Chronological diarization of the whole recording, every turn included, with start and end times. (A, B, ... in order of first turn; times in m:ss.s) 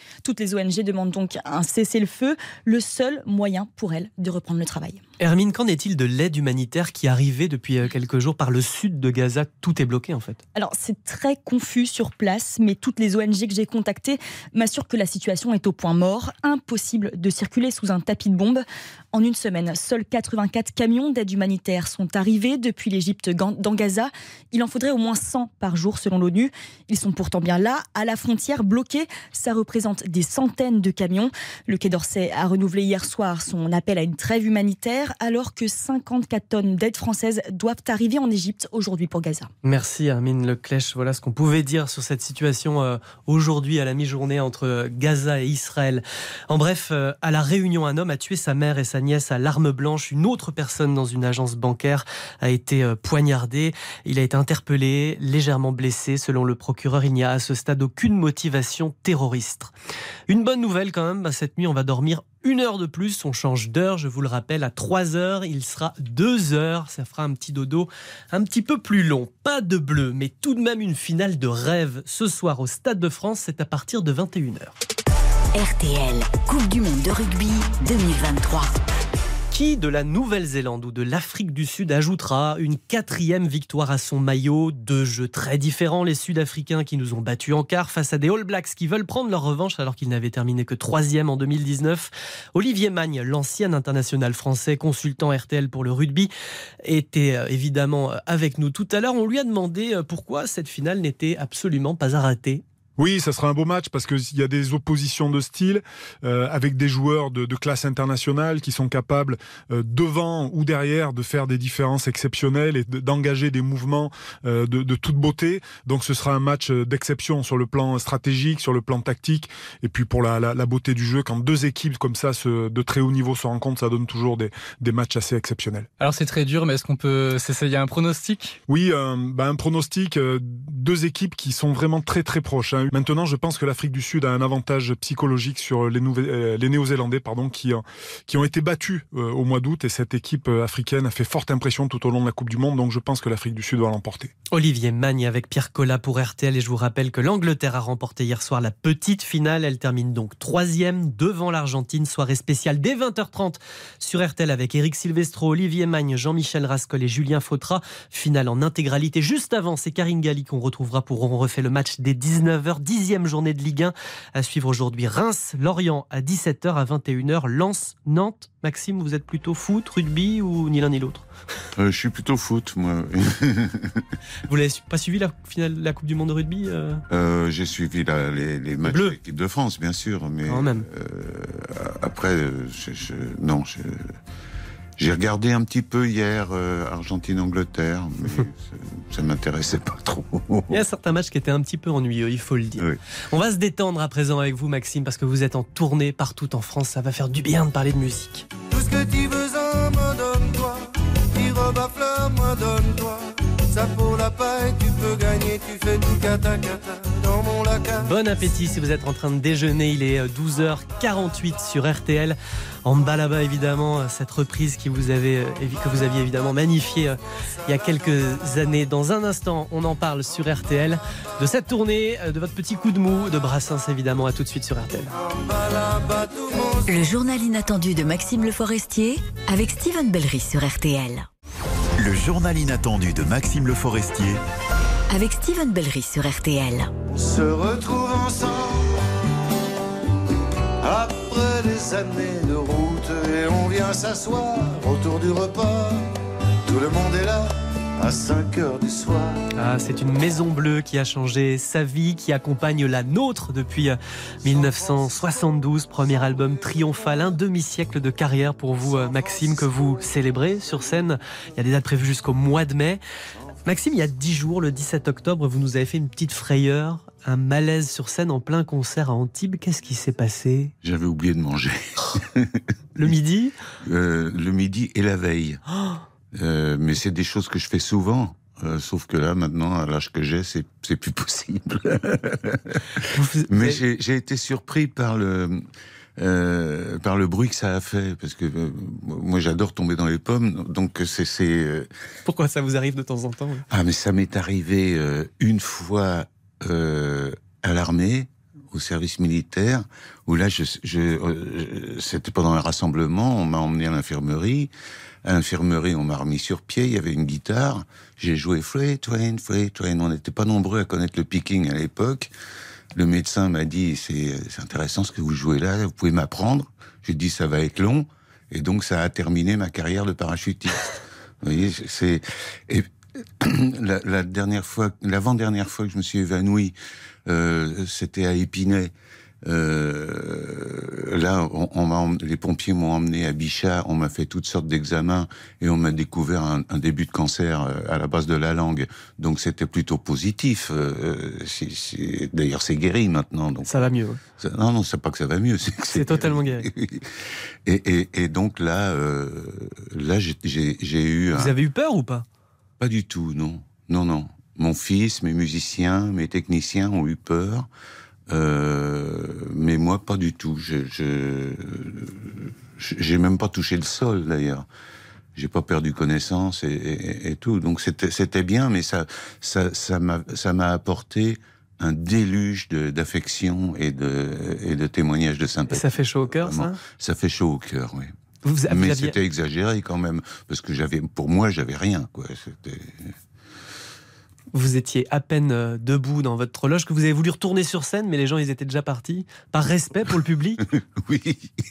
0:00.2-0:05.0 A
0:05.2-0:10.4 B
0:10.6-0:39.5 A
0:39.6-0:59.7 B
1:00.3-1:14.7 B
1:15.5-1:18.7 C
1:19.5-1:36.3 B
1:36.8-1:42.6 B
1:43.0-2:05.9 D
2:06.0-2:08.5 E
2:08.7-2:24.3 D
2:24.5-2:51.2 B
2:51.7-2:54.0 F
2:54.5-2:57.0 B
2:57.1-3:04.1 F
2:58.8-2:59.2 B
3:00.5-3:00.8 B
3:05.0-3:10.8 F
3:10.7-3:18.4 B
3:18.7-3:28.1 G
3:28.0-3:45.1 B
3:45.2-3:47.1 G
3:46.9-3:51.3 C
3:52.0-3:54.4 H
3:55.1-3:56.9 C
3:57.1-3:59.0 G
4:00.8-4:06.0 G
4:06.6-4:09.4 G
4:09.6-4:23.0 B
4:14.4-4:14.8 G
4:23.6-4:30.7 B
4:30.8-4:33.1 F
4:33.0-4:33.5 B
4:33.8-4:35.6 F
4:36.3-4:45.6 F
4:43.1-4:43.8 B
4:46.2-4:51.9 F
4:52.2-4:53.6 B
4:53.7-5:04.7 F
5:05.2-5:12.3 F
5:12.9-5:22.9 F
5:23.4-5:26.7 F
5:27.2-5:28.9 F
5:29.4-5:43.8 F
5:43.6-5:44.2 B
5:44.4-5:47.1 F
5:45.9-5:46.7 B
5:47.6-5:51.5 F
5:51.3-5:52.2 B
5:52.8-5:57.7 F
5:58.3-6:04.6 F
6:05.4-6:18.1 F
6:15.7-6:16.8 B
6:18.4-6:19.1 B
6:18.7-6:23.1 F
6:24.5-6:30.6 B
6:30.7-6:31.5 F